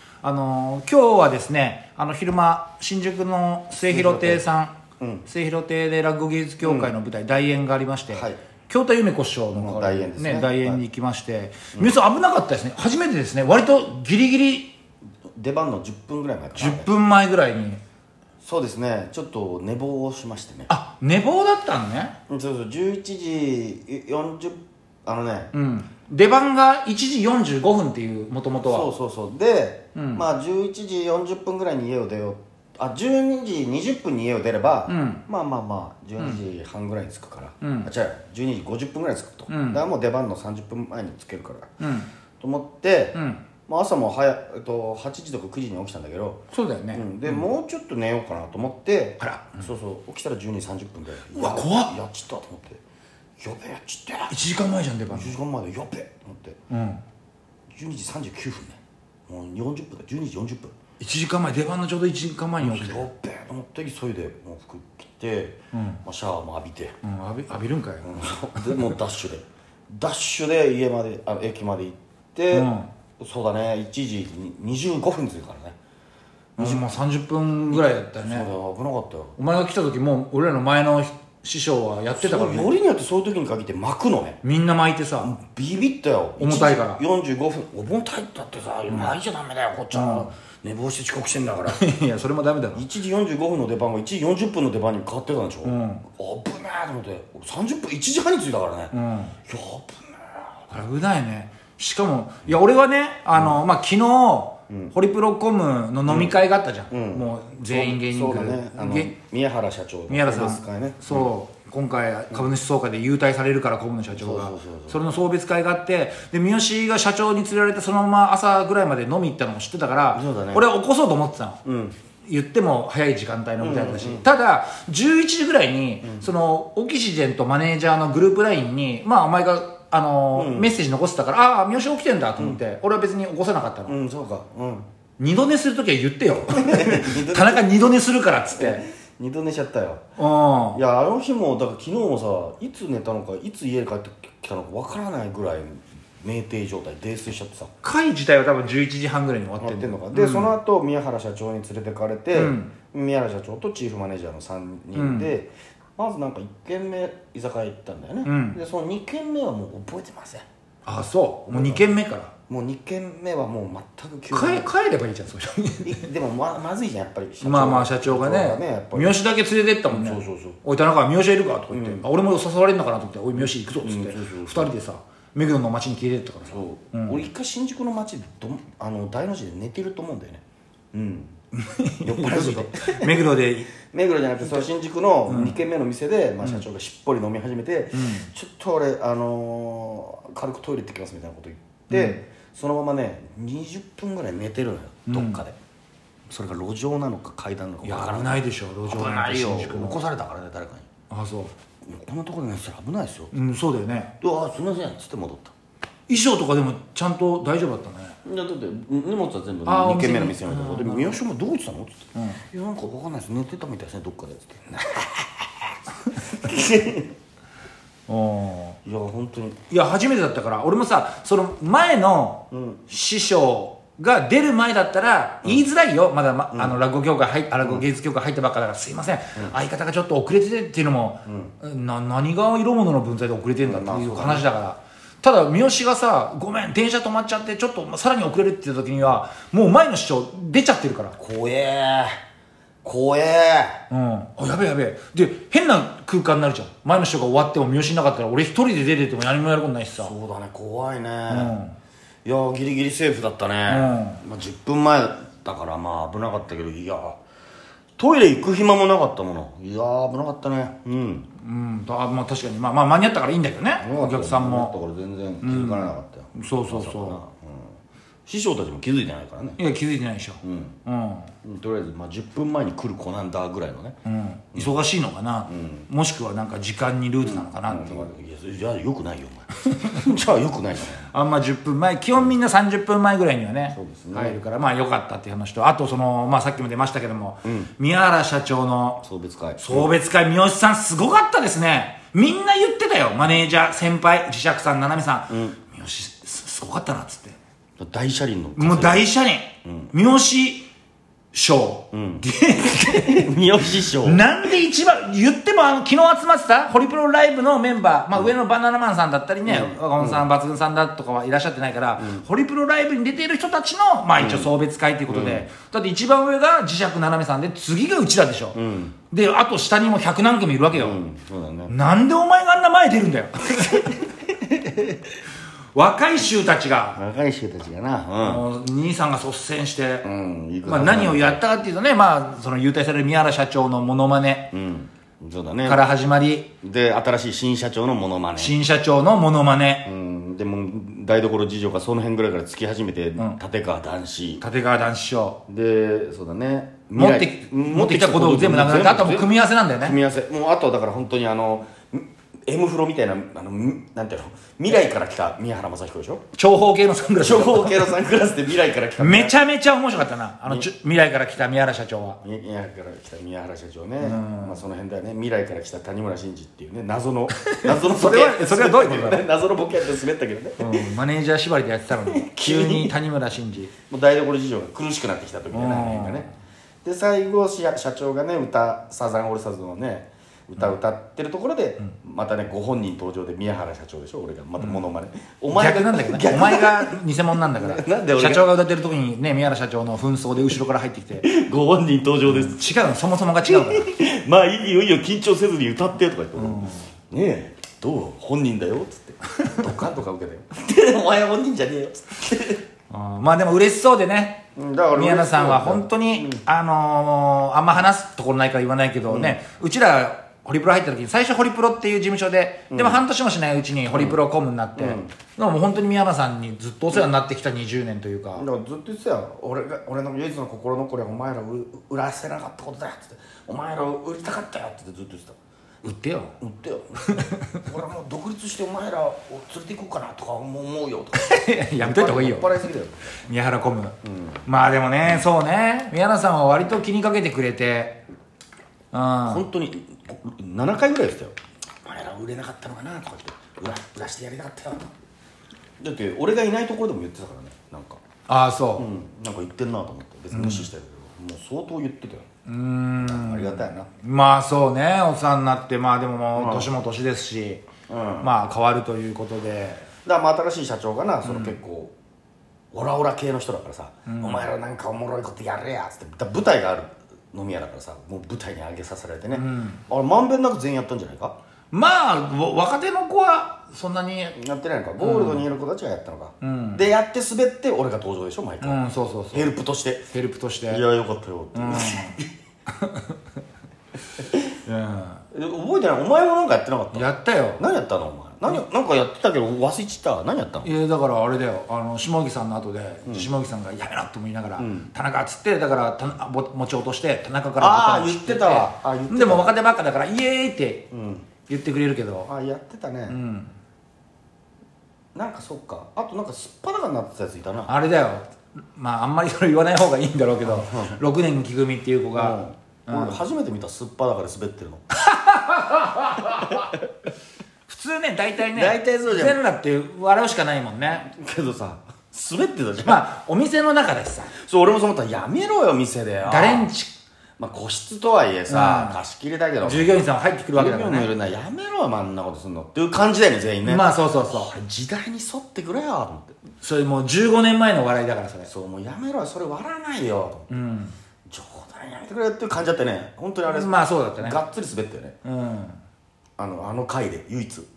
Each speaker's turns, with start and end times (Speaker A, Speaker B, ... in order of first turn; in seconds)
Speaker A: 0.2-14.7, 16.6-17.8, 20.7-22.1, 25.5-28.9, 29.9-30.2, 34.9-35.2, 37.6-37.9, 39.5-39.8, 41.8-42.1, 43.1-43.4, 46.5-47.5, 49.2-49.6, 51.3-51.9, 54.3-55.4, 56.7-57.0, 61.0-63.1, 65.7-66.0, 67.0-68.2, 72.5-72.9, 76.6-78.5, 79.4-82.7, 84.4-85.3, 86.4-87.0, 88.9-89.2, 89.9-90.3, 91.7-92.8, 95.6-96.0, 98.9-99.3, 100.7-109.1, 110.1-121.6, 122.2-133.9, 135.2-138.8, 140.2-140.8, 147.8-150.5, 152.3-152.7, 154.9-155.3, 158.2-158.6, 160.8-162.3, 164.3-166.0, 167.4-177.2, 181.5-183.7, 185.3-185.6, 187.9-188.3, 191.9-192.2, 195.1-195.4, 197.8-200.0, 201.1-201.5, 203.3-204.1, 206.1-208.2, 209.7-211.2, 212.1-212.4, 218.1-218.8, 219.7-241.2, 243.9-250.1, 251.3-251.8, 253.7-254.2, 261.4-264.7, 265.4-267.2, 269.6-271.3, 274.0-278.1, 281.1-289.0, 289.6-297.4, 298.6-300.7, 301.3-303.3, 303.9-318.6, 319.1-321.0, 321.7-324.1, 325.7-327.0, 328.2-330.1, 330.6-334.5, 335.6-336.5, 338.4-339.9, 344.4-345.4, 347.0-350.0, 356.4-357.9, 359.0-362.2, 364.0-364.6, 367.3-369.3, 370.6-373.7, 375.5-376.3, 385.5-391.2, 392.2-393.9, 396.4-396.9, 402.9-418.4, 425.8-426.3, 427.1-427.6, 431.1-432.6, 433.3-438.0, 438.9-439.4, 448.3-448.9, 450.3-450.7, 452.4-457.6, 458.2-459.9, 461.2-461.5, 464.1-464.4, 469.3-469.8, 471.7-474.4, 475.0-475.5, 476.4-476.8, 478.6-479.5, 480.1-480.8, 481.5-482.2, 482.7-483.1, 484.6-485.2, 486.9-487.6, 490.6-500.9, 501.5-502.3, 503.1-503.5, 507.7-513.2, 515.0-516.7, 517.7-521.1, 522.8-524.3, 526.2-527.0, 528.5-529.0, 529.6-531.1, 533.6-534.5, 536.6-538.5, 540.5-540.9, 543.5-544.4, 545.2-545.8
Speaker B: 3.8-4.4, 5.0-5.3, 6.6-6.9, 8.1-8.4, 9.5-10.8, 15.3-16.9, 18.4-20.7, 22.3-25.5, 28.6-41.7, 42.4-52.8, 53.4-54.4, 55.1-56.6, 57.7-60.7, 62.6-67.0, 68.0-75.8, 76.6-76.8, 77.8-79.3, 82.1-84.4, 85.2-91.8, 92.7-98.9, 99.5-100.7, 103.3-103.6, 104.7-104.9, 106.0-106.4, 106.9-111.3, 114.1-115.0, 120.1-120.7, 121.6-122.0, 123.6-124.3, 126.0-126.3, 130.3-130.7, 133.8-134.9, 136.5-137.7, 138.5-140.0, 140.7-147.7, 149.6-160.4, 161.4-161.9, 162.5-164.7, 165.8-169.2, 169.9-170.6, 171.7-172.0, 173.3-174.7, 176.5-181.3, 182.0-183.3, 183.9-195.6, 196.3-200.9, 201.8-203.3, 204.2-205.5, 208.2-217.1, 218.8-219.6, 222.5-222.8, 231.2-231.5, 233.6-234.5, 241.2-242.1, 242.8-243.8, 250.0-251.6, 252.2-257.2, 258.0-261.3, 263.8-267.8, 268.3-269.6, 270.4-270.8, 271.4-274.0, 275.5-275.9, 277.2-281.1, 283.7-284.4, 287.4-287.7, 289.0-289.9, 295.3-295.6, 297.8-299.1, 299.6-299.9, 301.9-304.3, 309.4-310.3, 312.0-312.3, 314.2-314.5, 315.1-315.5, 318.5-319.0, 320.7-321.7, 324.4-325.0, 326.9-328.4, 330.0-331.4, 334.5-335.8, 336.6-338.6, 339.8-344.4, 345.5-356.2, 357.2-359.4, 362.2-370.9, 372.0-372.9, 373.9-376.3, 376.8-388.5, 391.2-392.7, 393.4-402.6, 404.6-406.4, 409.1-409.4, 412.7-413.0, 413.9-414.2, 414.8-415.1, 418.4-425.4, 426.4-433.3, 434.0-434.4, 439.2-444.9, 445.8-448.0, 448.8-452.3, 453.0-453.9, 456.4-456.7, 457.9-458.3, 460.0-461.9, 462.7-471.4, 474.4-480.1, 480.7-482.3, 485.3-490.7, 493.1-493.3, 494.6-494.9, 497.6-499.5, 500.9-501.3, 502.3-503.2, 505.1-507.7, 510.4-511.0, 512.1-514.8, 516.5-516.7, 518.5-519.4, 521.0-523.0, 524.3-526.7, 527.4-536.4, 538.5-540.6, 541.3-545.2, 546.4-547.7